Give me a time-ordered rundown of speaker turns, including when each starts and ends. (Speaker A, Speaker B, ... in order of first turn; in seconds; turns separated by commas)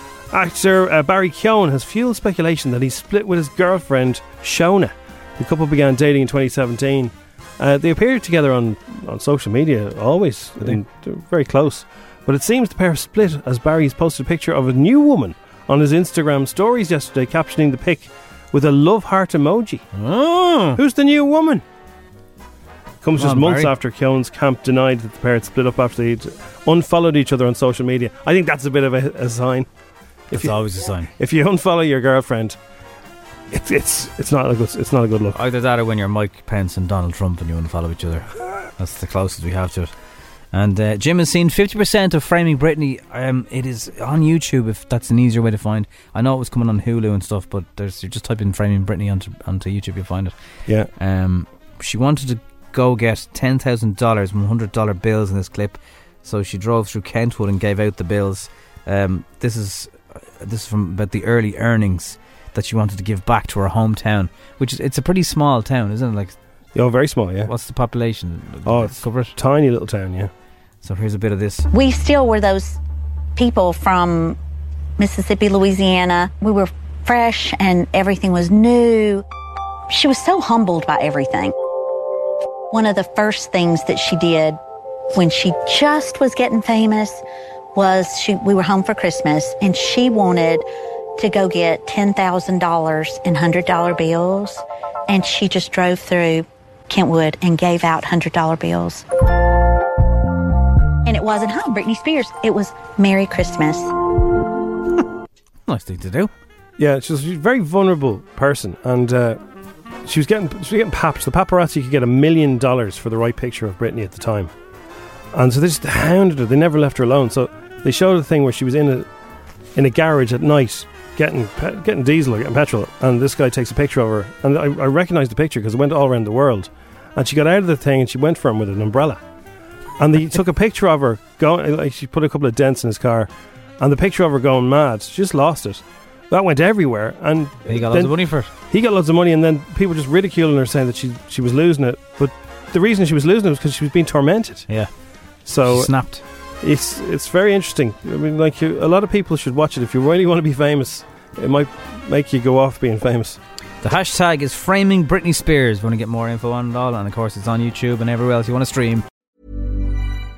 Speaker A: 0.3-19.8, Speaker B: 19.9-20.8, Speaker A: 20.8-21.6, Speaker A: 23.0-29.7, Speaker B: 23.2-23.7, Speaker A: 30.3-30.6, Speaker B: 30.3-31.1, Speaker A: 31.2-32.6, Speaker A: 33.5-35.4, Speaker B: 35.3-39.9, Speaker B: 40.5-50.4, Speaker B: 50.9-66.4, Speaker A: 66.8-67.5, Speaker B: 67.5-69.3, Speaker A: 68.7-70.3, Speaker B: 70.8-71.7, Speaker C: 71.7-72.8, Speaker C: 73.4-74.4, Speaker C: 75.0-79.2, Speaker C: 79.9-81.5, Speaker C: 82.7-84.6, Speaker C: 85.1-87.2, Speaker C: 87.8-90.7, Speaker C: 91.2-99.0, Speaker C: 101.0-103.9, Speaker B: 105.7-106.3, Speaker A: 106.8-109.4, Speaker A: 110.0-114.5, Speaker A: 115.3-119.1, Speaker A: 119.8-129.2, Speaker A: 130.0-144.7, Speaker B: 137.7-138.5, Speaker A: 145.5-145.9, Speaker B: 145.7-146.2, Speaker A: 146.6-153.4, Speaker B: 153.8-159.0